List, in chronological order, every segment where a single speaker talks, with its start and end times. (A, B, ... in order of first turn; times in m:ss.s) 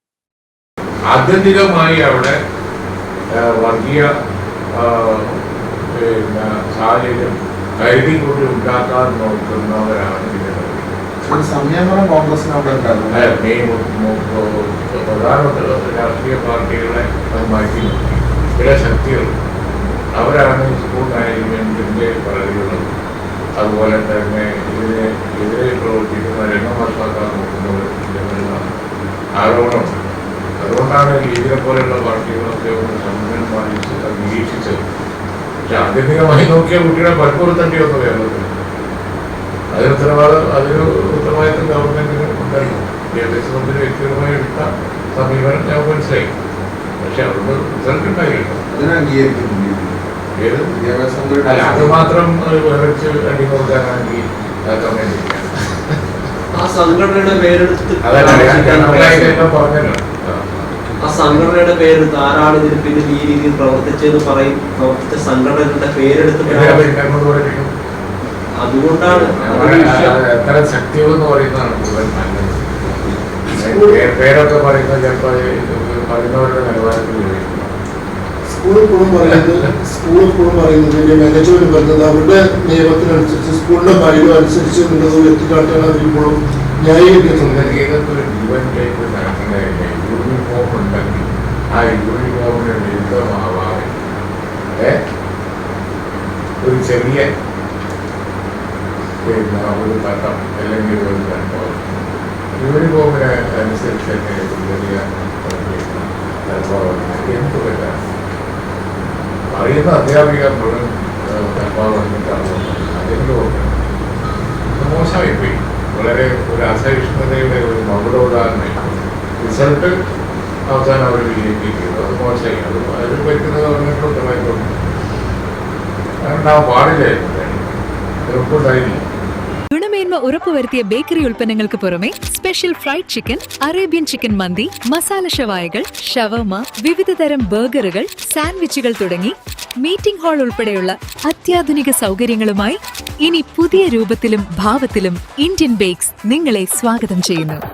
0:01.1-0:02.4 A
0:03.4-0:04.1 A
0:04.8-0:05.4 A
0:06.0-0:10.9 A
0:11.2-0:13.4 B
0:13.1-0:19.3 A
0:20.2-0:22.9 A
0:23.6-0:28.6 A
0:29.4-0:30.0 A
0:30.6-0:34.8 A
0:35.7-0:38.5 A
0:39.7-0:46.3 A
0:47.0-0:48.6 A
0:48.7-0:50.1 B
0:50.3-0:50.7 A
0:50.7-0:52.1 B
0:51.4-0:56.0 A
0:56.5-0:59.4 C
0:58.0-1:00.5 A
1:01.0-1:06.9 C
1:06.4-1:07.7 A
1:08.6-1:10.2 C
1:09.0-1:17.7 A
1:13.6-1:14.0 D
1:18.4-1:27.8 D
1:27.1-1:33.9 A
1:36.6-1:37.3 A
1:39.2-1:41.8 A
1:42.6-1:48.0 A
1:49.5-1:53.7 A
1:54.8-1:59.9 A
2:00.7-2:04.7 A
2:06.2-2:07.7 A
2:08.2-2:09.0 A
2:09.7-2:27.6 E